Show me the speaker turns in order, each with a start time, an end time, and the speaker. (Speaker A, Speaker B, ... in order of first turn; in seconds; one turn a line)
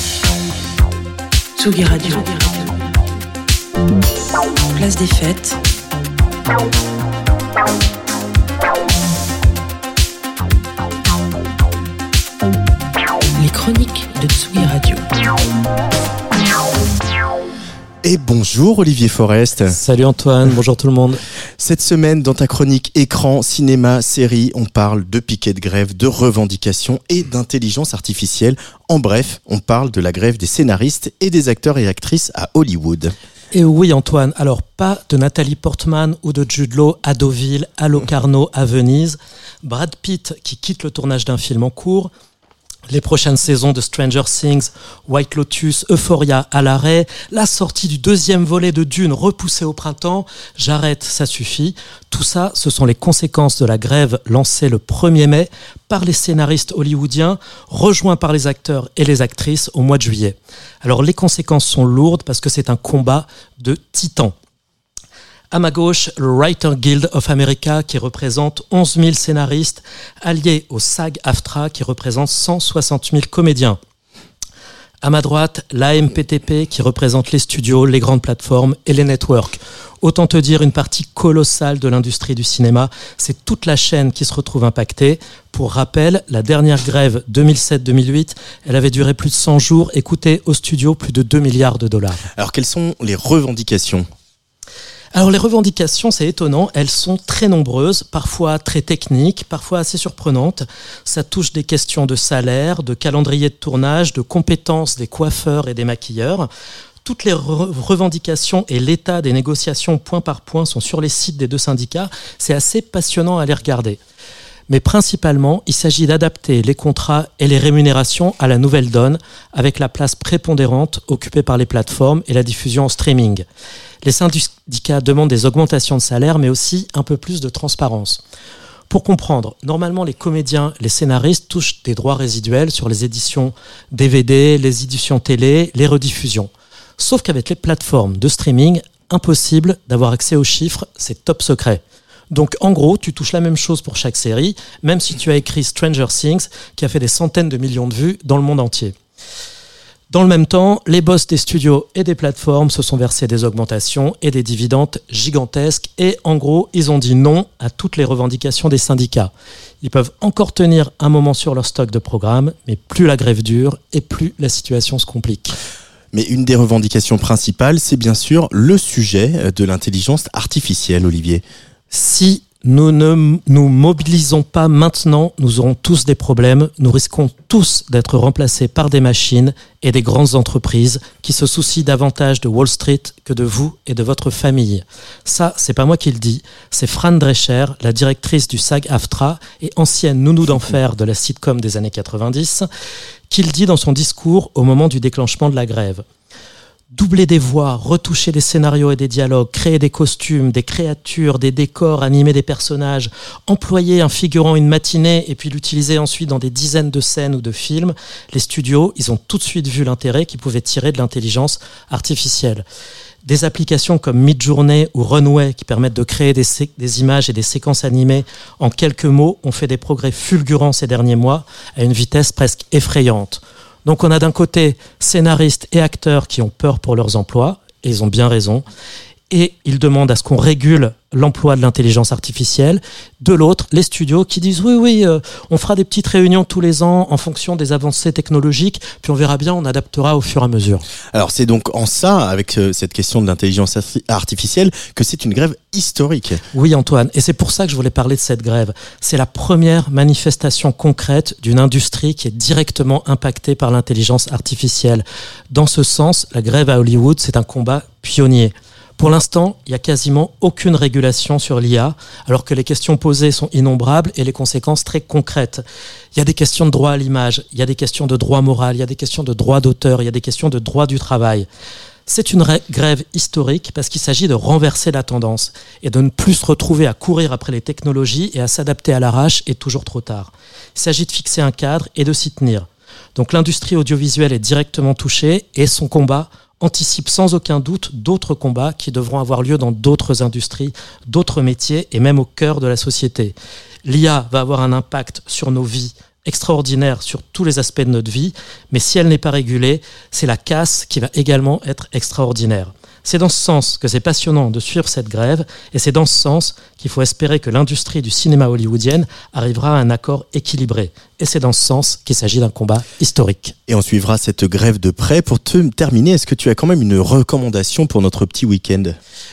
Speaker A: 1.6-2.8
Speaker A: 4.7-5.6
Speaker A: 13.3-15.0
Speaker B: 18.0-19.8
Speaker C: 19.7-21.2
Speaker B: 21.6-33.1
Speaker C: 33.5-42.1
Speaker C: 42.9-64.3
Speaker C: 65.5-73.8
Speaker C: 75.0-92.2
Speaker B: 92.4-94.0
Speaker C: 95.1-106.5
Speaker C: 107.0-114.0
Speaker C: 114.7-123.4
Speaker C: 124.0-128.2
Speaker C: 128.9-148.9
Speaker C: 150.1-165.5
Speaker B: 166.1-171.4
Speaker C: 171.9-192.7
Speaker C: 193.3-196.0
Speaker C: 196.9-212.6
Speaker C: 213.2-228.6
Speaker C: 229.3-240.8
Speaker B: 241.1-246.4
Speaker C: 246.5-265.6
Speaker C: 266.1-271.4
Speaker C: 272.1-313.5
Speaker B: 313.7-319.0